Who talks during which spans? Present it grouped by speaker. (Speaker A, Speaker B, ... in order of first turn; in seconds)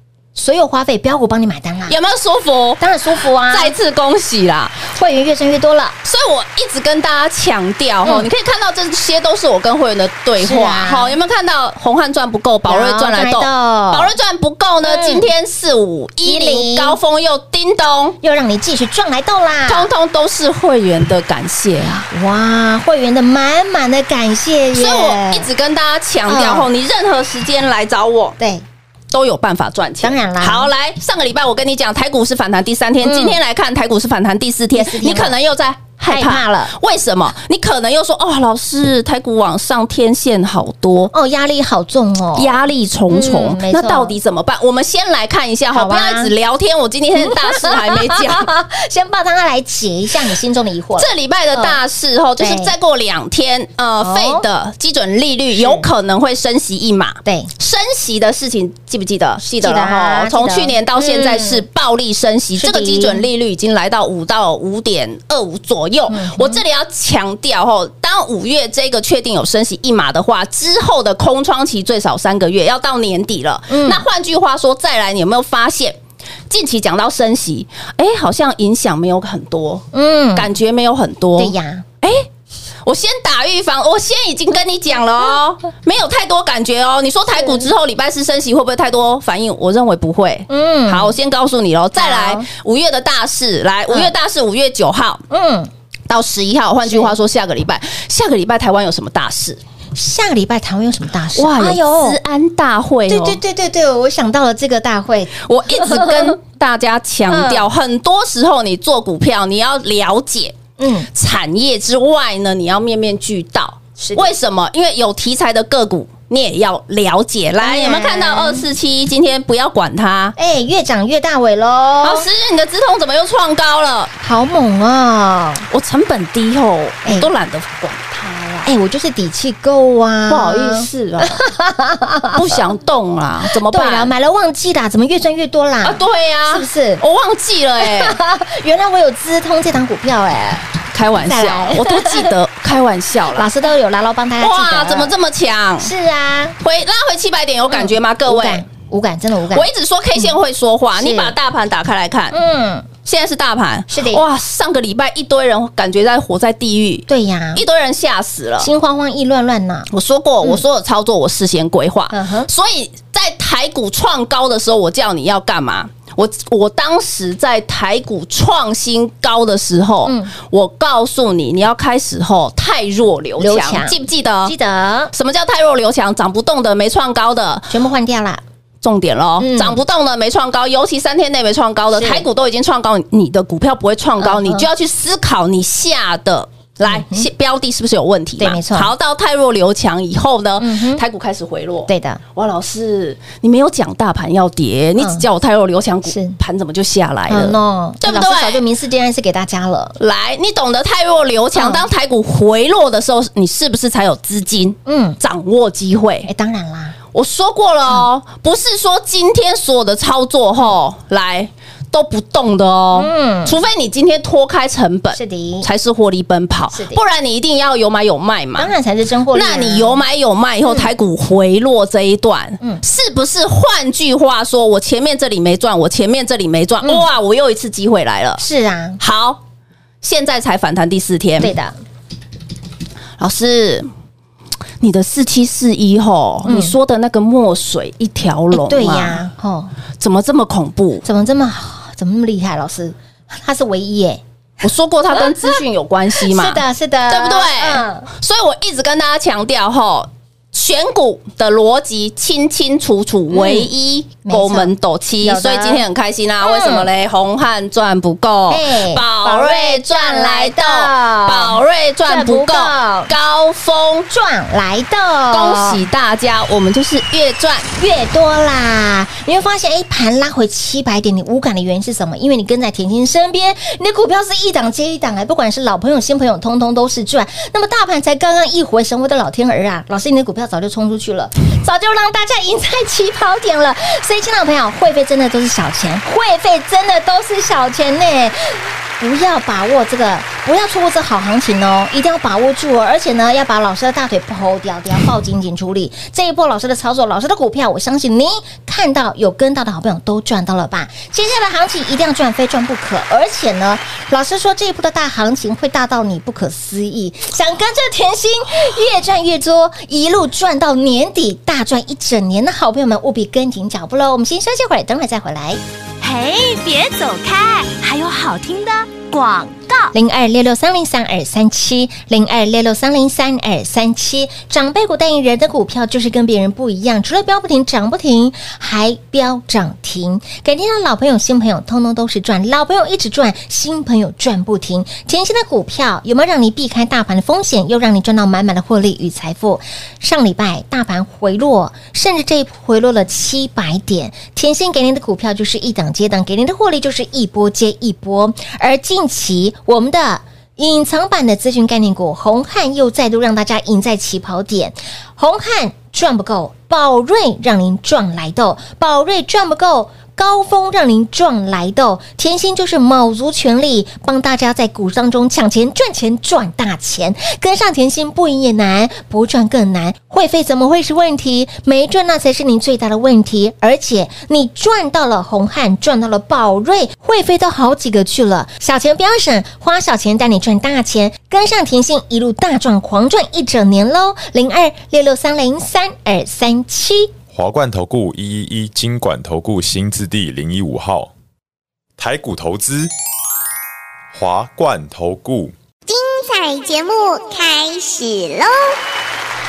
Speaker A: 0.3-2.0, 2.8-3.8, 4.8-6.0, 8.0-8.3, 10.4-11.2, 12.7-14.1, 14.8-15.3, 16.2-17.0, 18.2-19.9, 22.1-25.5, 26.3-26.7, 30.0-30.7, 33.0-33.4, 34.8-35.3, 36.1-36.7, 41.1-44.2, 45.7-46.3, 47.2-51.8, 52.4-52.7, 54.0-54.5, 55.6-55.9, 57.2-57.5, 59.4-61.6, 62.6-63.2, 66.1-66.6, 73.7-74.0, 79.9-80.5, 81.4-81.8, 87.4-87.7, 90.5-91.2, 92.0-92.5, 95.3-95.7, 96.8-97.2, 100.0-102.2, 103.1-106.3, 107.3-107.7, 110.8-111.1, 114.0-114.3, 117.6-118.7, 120.4-122.3, 124.2-125.7, 128.7-132.6, 133.6-137.0, 137.8-142.3, 143.3-145.1, 145.8-146.6, 147.7-150.3, 151.0-151.3, 152.3-152.9, 153.9-154.2, 157.1-157.6, 158.6-159.9, 162.1-162.5, 170.1-170.3, 173.4-175.1, 177.7-178.4, 179.4-179.8, 181.9-182.2, 184.2-184.7, 186.8-187.3, 188.4-188.9, 190.6-191.0, 191.9-192.2, 195.0-195.2, 196.1-196.4, 197.3-200.0, 201.6-201.9, 204.9-205.2, 206.3-207.0, 212.9-213.6, 215.2-215.7, 216.7-217.0, 218.6-220.0, 228.4-229.0, 231.4-231.8, 236.5-236.7, 238.5-239.7, 241.0-244.2, 245.1-245.6, 246.2-248.1, 253.3-253.7, 254.2-254.7, 255.2-255.8, 256.4-256.9, 258.5-263.1, 264.1-265.8, 267.8-315.6, 319.9-387.1
Speaker B: 1.9-2.8, 3.5-4.8, 6.0-18.2, 19.7-22.1, 24.7-28.4, 29.1-41.1, 42.4-48.5, 51.0-82.3, 82.8-95.2, 96.1-99.6, 101.4-103.4, 105.4-110.6, 111.1-120.4, 122.0-124.1, 125.7-128.7, 130.3-131.4, 132.3-134.1, 135.8-138.2, 140.9-143.5, 144.4-145.9, 146.6-148.7, 149.5-152.4, 153.1-158.7, 159.9-174.5, 175.1-177.7, 178.8-198.6, 200.0-206.3, 207.1-218.7, 219.3-228.4, 229.0-229.4, 230.0-231.5, 233.2-233.9, 234.8-239.2, 240.0-241.0, 244.6-264.1, 265.3-267.7
Speaker C: 316.0-319.9
Speaker D: 387.3-391.1, 392.0-392.9, 394.1-395.5
Speaker E: 395.9-398.8